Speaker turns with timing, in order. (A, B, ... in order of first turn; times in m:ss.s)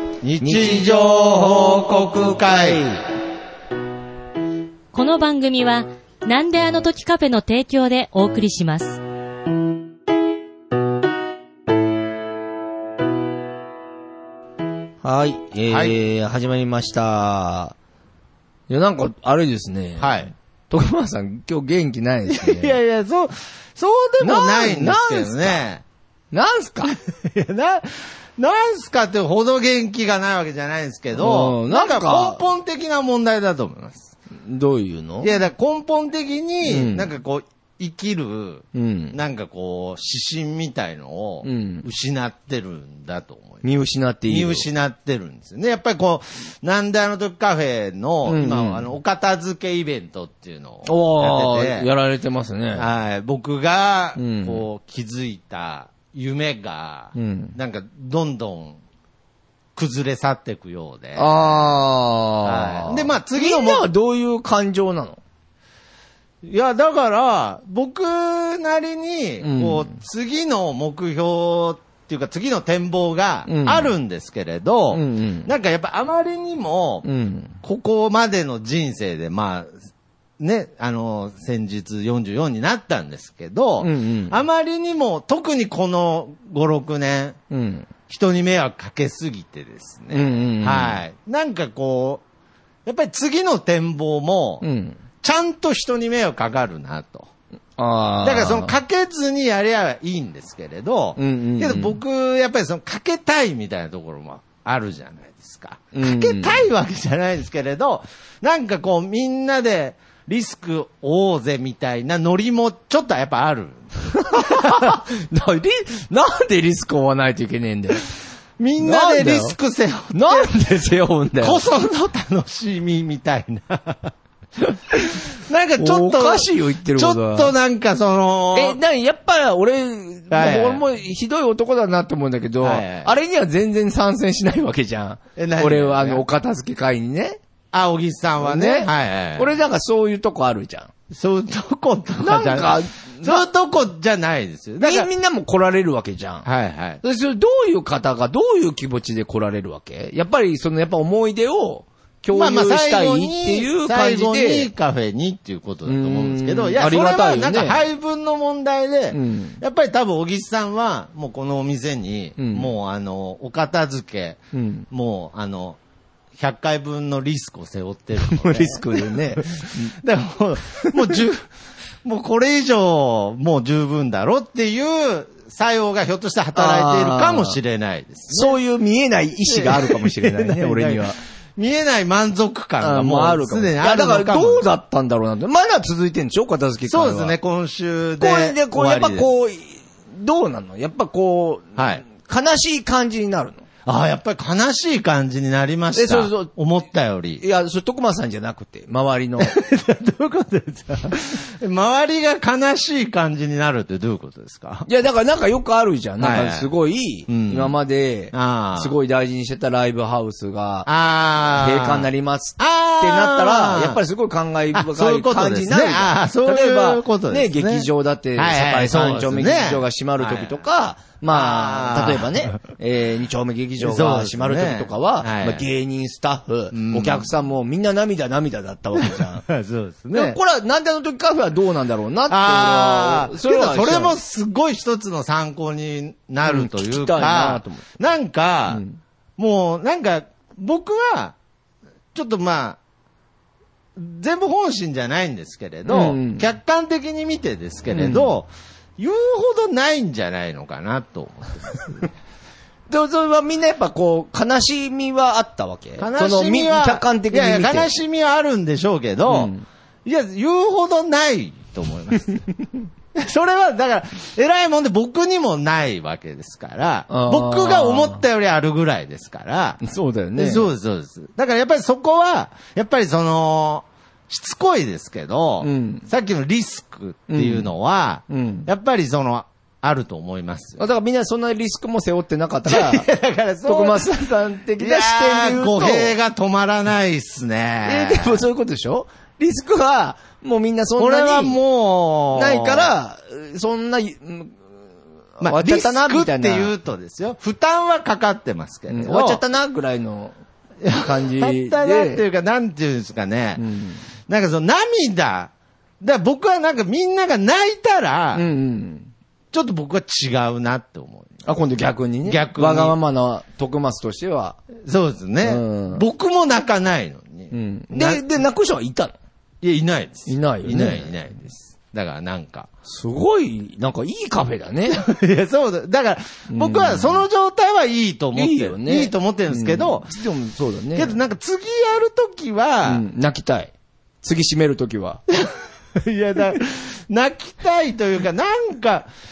0:00.2-0:02.8 A
0:00.4-0:00.9 B
0:02.5-0:03.0 B
0:04.9-0:09.0 C
0:15.0-0:17.7 B
0:15.7-0:15.9 A
0:18.7-0:22.8 B
0:20.0-0:20.3 A
0:22.3-0:25.8 A
0:24.2-0:25.6 B
0:26.3-0:26.9 B
0:26.9-0:34.1 A
0:31.2-0:32.4 B
0:34.4-0:35.3 B
0:35.2-0:43.6 A
0:36.6-0:37.1 B
0:38.7-0:39.2 B
0:41.4-0:41.9 B
0:43.6-0:44.7 B
0:44.3-0:51.9 A
0:48.2-0:48.9 B
0:50.8-0:52.9 B
0:52.7-0:58.8 A
0:54.2-0:54.6 B
0:57.1-0:57.6 B
0:59.8-1:01.7 A
1:01.1-1:05.2 B
1:02.4-1:03.9 A
1:06.4-1:17.0 A
1:09.4-1:10.0 B
1:13.4-1:13.9 B
1:14.9-1:15.5 B
1:17.0-1:17.6 B
1:17.6-1:19.8 A
1:20.4-1:27.4 A
1:23.8-1:24.4 B
1:27.5-1:27.9 B
1:28.1-1:32.2 A
1:30.1-1:31.0 B
1:32.8-1:34.6 A
1:34.6-1:35.0 B
1:35.2-1:37.3 A
1:37.8-1:38.8 B
1:38.2-1:55.0 A
1:41.2-1:42.0 B
1:45.9-1:46.6 B
1:54.1-1:58.1 B
1:58.6-2:00.6 A
1:58.8-1:59.6 B
2:00.1-2:01.6 B
2:01.4-2:04.1 A
2:04.6-2:05.2 B
2:05.3-2:08.8 A
2:05.8-2:07.5 B
2:08.5-2:17.4 B
2:10.3-2:10.8 A
2:12.6-2:13.1 A
2:15.4-2:16.2 A
2:17.7-2:19.5 A
2:18.4-2:20.9 B
2:21.1-2:25.1 A
2:22.2-2:23.4 B
2:24.8-2:26.5 B
2:26.4-2:27.0 A
2:27.0-2:34.7 B
2:32.3-2:45.8 A
2:35.8-2:37.8 B
2:39.1-2:39.6 B
2:42.4-2:42.7 B
2:44.5-2:44.8 B
2:46.4-2:51.5 A
2:48.2-2:50.0 B
2:50.8-2:51.1 B
2:52.0-2:58.6 A
2:56.5-2:57.6 B
2:58.3-3:01.2 B
2:59.5-3:04.6 A
3:02.8-3:07.4 B
3:06.9-3:09.3 A
3:08.2-3:13.6 B
3:11.8-3:12.0 A
3:13.8-3:17.4 A
3:15.9-3:16.5 B
3:17.4-3:19.6 B
3:19.4-3:24.9 A
3:24.8-3:30.9 B
3:26.2-3:26.7 A
3:27.3-3:27.8 A
3:28.3-3:28.9 A
3:30.8-3:34.0 A
3:31.6-3:49.4 B
3:34.7-3:40.6 A
3:41.3-3:42.6 A
3:43.8-3:45.6 A
3:46.7-3:47.3 A
3:49.0-3:50.4 A
3:50.1-3:54.2 B
3:52.3-3:58.8 A
3:56.4-3:57.8 B
3:58.7-3:59.0 B
3:59.4-4:01.4 A
4:02.1-4:02.8 A
4:04.0-4:12.1 A
4:05.8-4:06.4 B
4:07.9-4:08.3 B
4:12.9-4:18.0 B
4:16.0-4:19.5 A
4:19.2-4:19.6 B
4:20.0-4:22.4 A
4:23.1-4:29.8 A
4:27.1-4:28.2 B
4:29.8-4:30.7 B
4:30.3-4:40.8 A
4:35.6-4:36.1 B
4:37.3-4:37.7 B
4:38.3-4:38.7 B
4:40.8-4:43.1 B
4:42.7-4:44.1 A
4:43.6-4:46.2 B
4:44.8-4:48.4 A
4:47.8-4:51.6 B
4:51.0-4:52.9 A
4:52.3-4:54.6 B
4:55.4-4:56.7 B
4:55.4-4:59.4 A
4:58.9-5:00.3 B
5:00.8-5:03.6 A
5:01.0-5:02.2 B
5:03.6-5:04.0 B
5:04.3-5:08.4 A
5:08.3-5:09.1 B
5:09.5-5:11.5 A
5:11.4-5:14.6 B
5:12.2-5:13.0 A
5:14.8-5:18.2 A
5:15.4-5:16.0 B
5:17.5-5:19.1 B
5:19.6-5:22.7 A
5:20.2-5:21.2 B
5:22.8-5:25.0 B
5:24.9-5:30.1 A
5:26.5-5:27.2 B
5:28.3-5:31.2 B
5:30.9-5:33.0 A
5:32.8-5:35.2 B
5:35.3-5:39.1 A